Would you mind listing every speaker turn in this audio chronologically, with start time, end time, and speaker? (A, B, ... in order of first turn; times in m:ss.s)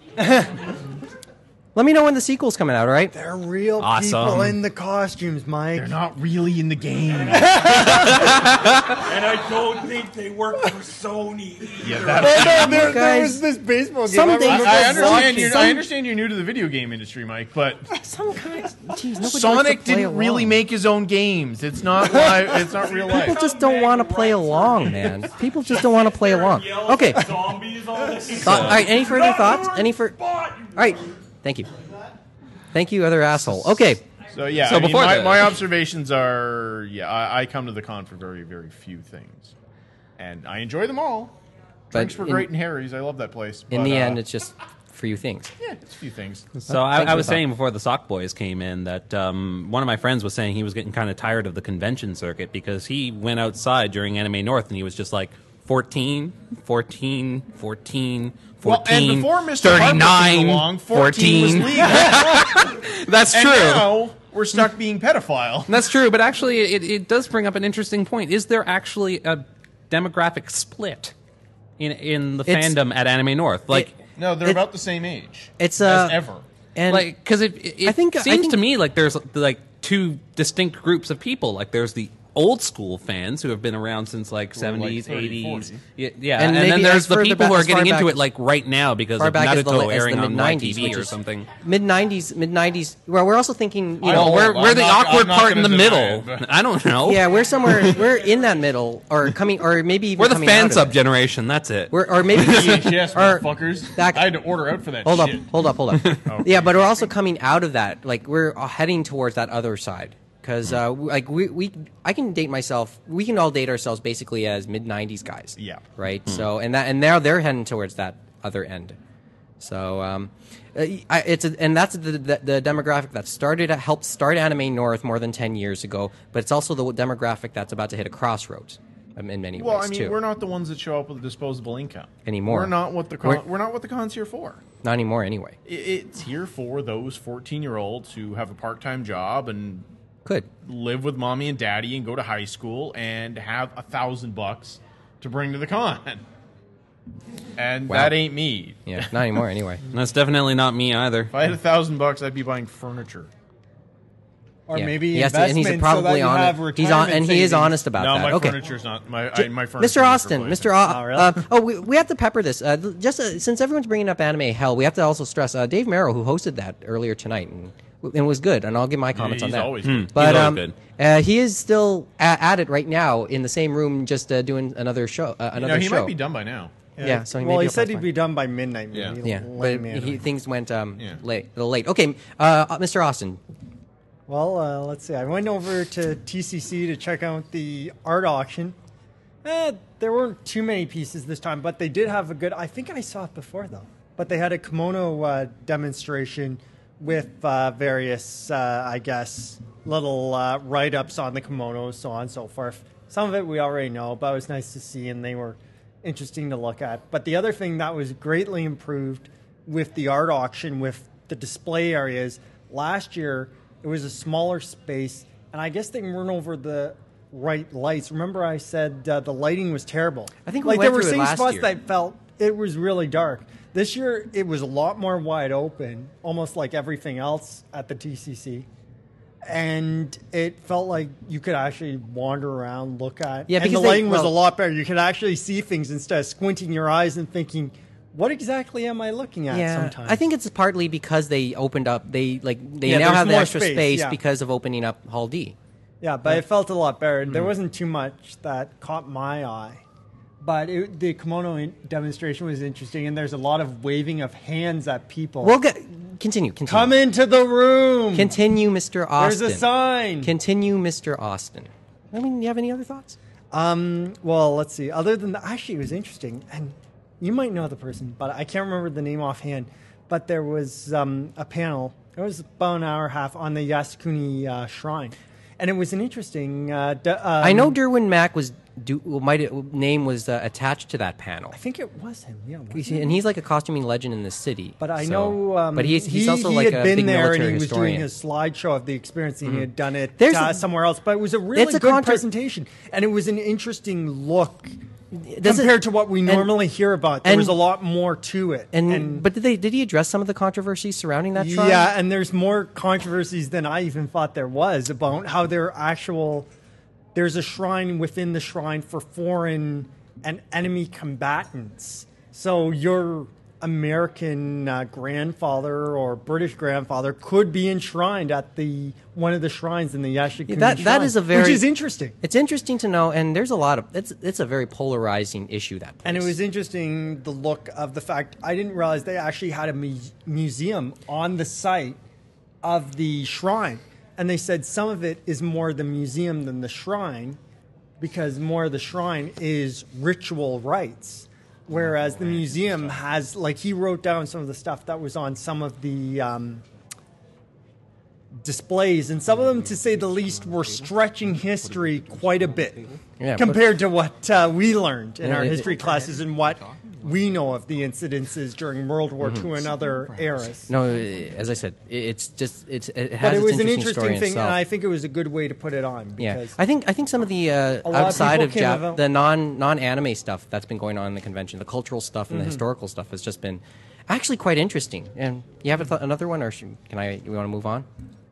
0:00.2-0:00.6 A
0:01.7-0:03.1 B
0:03.1-0:06.0 A
0:03.8-0:04.6 C
0:05.7-0:08.4 D
0:07.0-0:07.8 E
0:07.3-0:08.3 A
0:08.7-0:12.8 E
0:11.8-0:13.0 D
0:12.2-0:15.8 A
0:12.7-0:13.4 B
0:14.1-0:15.8 B
0:14.4-0:17.9 D
0:18.0-0:20.5 B
0:18.3-0:18.7 A
0:19.2-0:23.4 D
0:22.0-0:22.9 A
0:22.0-0:31.2 E
0:23.1-0:27.3 B
0:28.4-0:30.2 B
0:28.4-0:28.8 C
0:30.7-0:31.7 B
0:32.7-0:34.0 B
0:33.4-0:33.8 D
0:34.3-0:39.5 D
0:34.6-0:35.6 C
0:40.2-0:41.3 D
0:41.9-0:44.2 D
0:41.9-0:42.5 B
0:43.7-0:45.5 B
0:45.6-0:46.5 D
0:46.7-1:04.0 C
0:46.7-0:47.4 B
0:58.6-1:02.7 D
1:03.3-1:05.7 D
1:05.7-1:11.1 C
1:11.8-1:13.9 C
1:12.4-1:12.8 B
1:14.2-1:16.4 D
1:15.6-1:16.2 B
1:16.8-1:17.1 B
1:16.9-1:31.5 C
1:17.8-1:18.6 B
1:24.5-1:25.8 D
1:26.4-1:28.2 B
1:29.2-1:34.7 B
1:34.0-1:36.5 D
1:34.0-1:38.0 C
1:37.0-1:40.9 B
1:40.2-1:42.9 C
1:41.9-1:44.3 B
1:42.3-1:45.5 D
1:45.0-1:59.0 B
1:46.2-1:47.1 D
1:55.6-1:55.8 D
1:59.6-2:10.2 B
2:09.6-2:14.6 D
2:12.2-2:13.4 B
2:14.8-2:15.6 B
2:15.6-2:19.9 D
2:20.6-2:26.2 D
2:27.6-2:29.0 D
2:27.9-2:28.2 B
2:28.8-2:29.8 B
2:29.9-2:31.3 C
2:31.3-2:33.3 D
2:34.7-2:37.8 A
2:34.7-2:38.6 B
2:37.9-2:40.7 D
2:39.3-2:56.1 B
2:40.8-2:41.5 A
2:49.1-2:50.4 D
2:49.8-2:50.8 C
2:55.6-2:56.7 D
2:57.0-3:00.2 A
2:57.0-2:58.1 B
2:58.9-2:59.2 D
2:59.2-3:03.4 B
3:04.3-3:08.8 A
3:09.4-3:48.7 A
3:40.4-3:41.7 B
3:49.4-4:00.2 A
3:53.5-3:54.4 B
3:59.5-4:05.6 B
4:02.8-4:04.2 A
4:06.0-4:09.8 A
4:10.4-4:15.6 A
4:15.4-4:16.9 B
4:16.6-4:18.4 A
4:18.1-4:19.7 B
4:19.2-4:20.3 A
4:20.2-4:23.2 B
4:23.5-4:37.8 A
4:37.4-4:41.6 B
4:41.5-4:43.2 A
4:42.7-4:48.0 B
4:44.8-4:54.7 A
4:50.2-4:50.6 B
4:51.5-4:52.2 B
4:55.1-4:56.6 B
4:55.4-4:59.2 A
4:57.2-4:57.6 B
4:58.7-5:01.9 B
5:01.3-5:06.5 A
5:07.1-5:22.2 A
5:20.5-5:21.6 B
5:22.2-5:26.3 B
5:26.0-5:32.0 A
5:32.6-5:37.4 A
5:38.0-5:46.6 A
5:48.4-6:00.7 A
5:53.2-5:53.6 B
5:55.2-5:55.8 B
5:59.2-5:59.5 B
6:00.7-6:04.6 B
6:03.2-6:06.6 A
6:06.2-6:17.9 B
6:07.8-6:09.0 A
6:12.3-6:12.6 A